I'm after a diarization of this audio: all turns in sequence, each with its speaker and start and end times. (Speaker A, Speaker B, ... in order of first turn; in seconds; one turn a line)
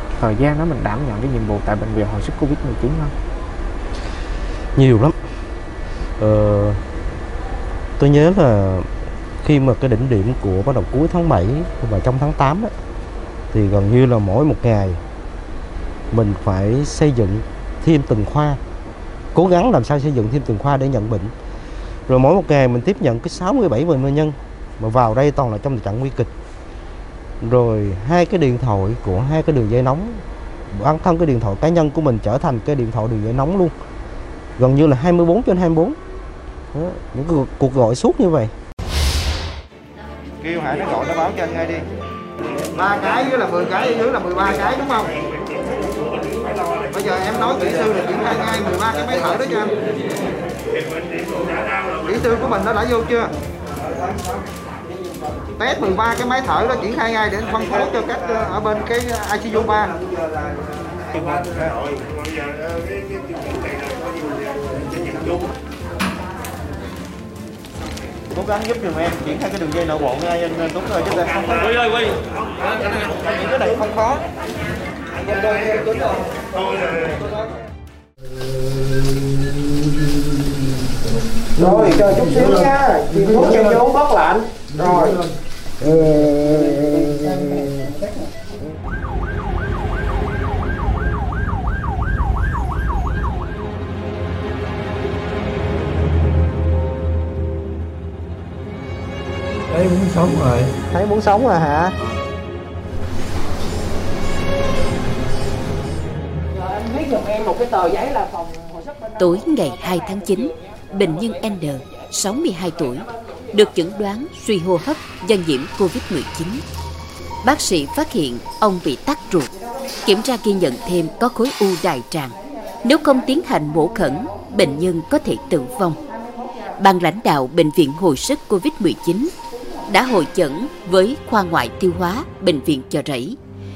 Speaker A: 0.2-3.1
Speaker B: 4.8-5.2
Speaker B: 6.2-6.8
Speaker B: 8.0-8.9
Speaker B: 9.4-12.7
Speaker B: 13.5-15.0
Speaker B: 16.1-18.6
Speaker B: 19.3-21.3
Speaker B: 22.1-26.3
Speaker B: 27.4-33.7
Speaker B: 34.6-36.0
Speaker B: 36.7-38.5
Speaker C: 40.4-41.8
Speaker C: 42.7-45.2
Speaker C: 46.9-49.8
Speaker C: 52.0-53.3
Speaker C: 55.6-60.1
Speaker C: 61.1-61.7
Speaker C: 68.4-71.7
Speaker B: 68.4-68.8
Speaker C: 73.2-74.2
Speaker C: 75.2-76.2
Speaker D: 81.5-83.8
Speaker C: 81.6-85.2
Speaker D: 84.7-85.3
Speaker B: 85.8-87.8
Speaker D: 99.7-100.7
Speaker C: 100.9-101.9
Speaker C: 106.9-108.3
Speaker E: 109.2-116.6
Speaker E: 117.4-119.5
Speaker E: 120.0-126.0
Speaker E: 126.8-129.3
Speaker E: 129.9-133.4